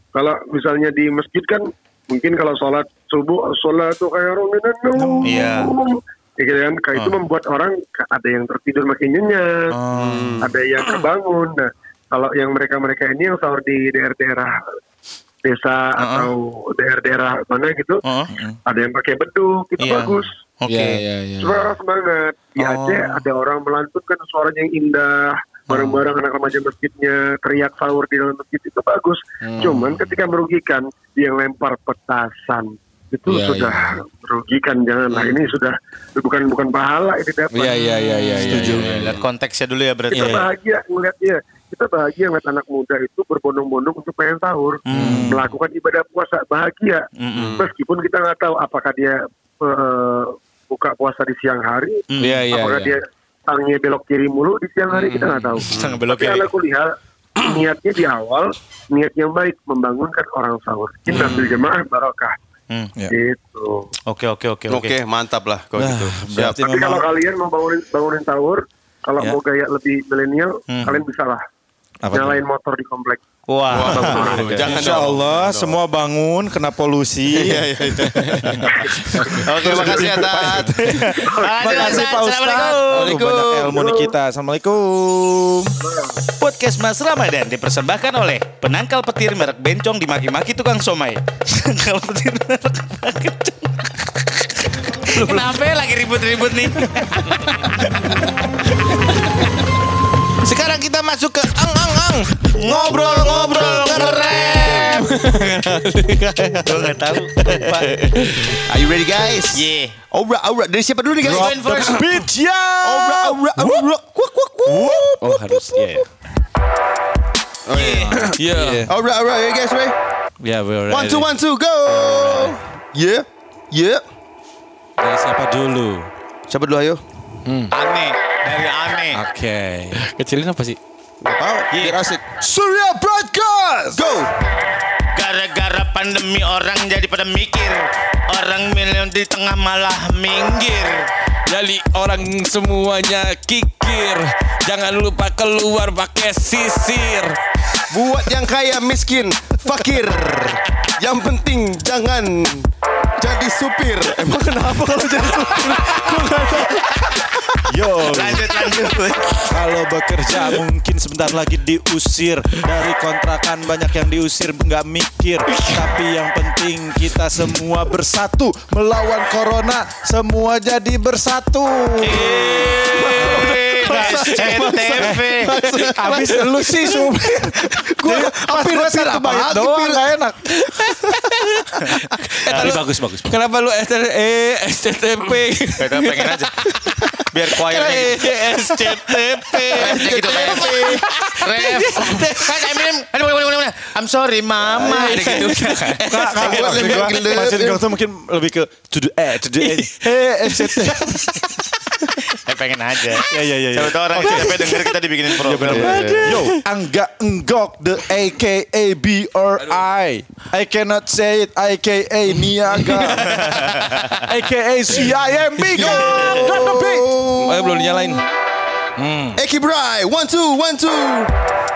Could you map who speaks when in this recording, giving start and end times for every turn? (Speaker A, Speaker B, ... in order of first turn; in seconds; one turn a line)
Speaker A: 0.2-9.6
Speaker B: 5.0-5.7
Speaker C: 5.2-5.7
Speaker C: 7.0-7.2
Speaker C: 9.7-10.4
Speaker D: 10.0-10.5
Speaker A: 10.4-14.5
Speaker A: 15.5-18.0
Speaker C: 16.0-16.3
Speaker C: 18.0-18.4
Speaker B: 18.3-18.6
Speaker A: 18.7-20.3
Speaker C: 19.8-21.0
Speaker E: 20.7-21.7
Speaker A: 21.4-37.8
Speaker C: 22.6-23.2
Speaker C: 25.7-26.0
Speaker E: 25.7-26.0
Speaker E: 29.4-30.0
Speaker E: 33.3-34.0
Speaker E: 35.1-35.4
Speaker E: 37.5-39.2
Speaker C: 37.8-40.4
Speaker B: 38.4-39.0
Speaker A: 40.1-47.0
Speaker B: 40.1-40.5
Speaker C: 44.9-45.2
Speaker E: 44.9-45.5
Speaker B: 44.9-45.5
Speaker C: 47.2-47.6
Speaker A: 47.6-52.0
Speaker C: 52.1-52.4
Speaker E: 52.2-53.0
Speaker A: 52.5-56.9
Speaker E: 54.9-55.7
Speaker C: 55.6-56.5
Speaker D: 55.7-56.0
Speaker A: 57.5-62.3
Speaker D: 61.1-61.6
Speaker A: 63.2-63.9
Speaker C: 64.1-65.0
Speaker D: 64.7-66.7
Speaker B: 65.8-67.1
Speaker A: 66.7-71.4
Speaker C: 70.7-71.0
Speaker B: 72.0-72.4
Speaker A: 72.1-73.2
Speaker C: 73.5-74.5
Speaker D: 73.7-75.8
Speaker B: 73.8-85.8
Speaker D: 77.3-78.7
Speaker C: 79.5-80.0
Speaker D: 79.5-81.1
Speaker A: 81.2-82.1
Speaker C: 81.4-83.2
Speaker D: 82.9-84.0
Speaker A: 83.8-84.1
Speaker A: 85.9-86.2
Speaker C: 86.3-98.1
Speaker E: 100.4-104.1
Speaker C: 102.5-105.2
Speaker E: 104.8-106.6
Speaker C: 106.6-107.9
Speaker B: 107.5-107.8
Speaker E: 108.0-108.5
Speaker D: 108.7-112.1
Speaker C: 109.5-110.0
Speaker B: 111.2-113.9
Speaker C: 111.2-112.0
Speaker D: 112.8-116.0
Speaker B: 114.7-115.1
Speaker E: 115.2-116.1
Speaker D: 117.7-120.0
Speaker C: 117.7-118.2
Speaker E: 118.3-118.9
Speaker B: 118.4-118.9
Speaker B: 120.4-121.3
Speaker D: 120.9-124.0
Speaker C: 122.1-122.5
Speaker B: 125.0-126.1
Speaker D: 126.5-127.0
Speaker E: 127.5-127.7
Speaker C: 127.7-129.2
Speaker B: 129.1-130.0
Speaker E: 129.9-130.8
Speaker D: 131.2-132.2
Speaker C: 131.7-132.0
Speaker B: 132.4-134.0
Speaker D: 133.9-134.3
Speaker C: 135.1-141.1
Speaker E: 141.5-147.4
Speaker D: 147.9-152.7
Speaker D: 153.2-157.6
Speaker B: 157.7-158.5
Speaker C: 158.1-159.6
Speaker B: 159.5-172.5
Speaker E: 165.5-165.9
Speaker E: 172.1-173.2
Speaker C: 172.1-175.5
Speaker D: 172.4-176.3
Speaker B: 173.2-181.2
Speaker E: 175.6-176.9
Speaker D: 177.6-180.0
Speaker E: 180.6-192.8
Speaker C: 182.5-182.7
Speaker B: 182.5-183.3
Speaker C: 185.8-186.5
Speaker C: 187.3-188.2
Speaker D: 189.7-191.1
Speaker C: 189.8-190.8
Speaker C: 191.3-196.1
Speaker E: 194.8-197.2
Speaker D: 194.8-195.2
Speaker B: 196.0-201.7
Speaker D: 196.4-197.9
Speaker E: 199.6-201.6
Speaker C: 202.3-206.0
Speaker B: 203.3-217.2
Speaker E: 204.2-204.7
Speaker D: 205.7-206.3
Speaker E: 206.0-206.6
Speaker E: 209.6-209.8
Speaker C: 213.2-214.2
Speaker D: 215.8-218.2
Speaker E: 217.3-218.2
Speaker D: 219.3-221.3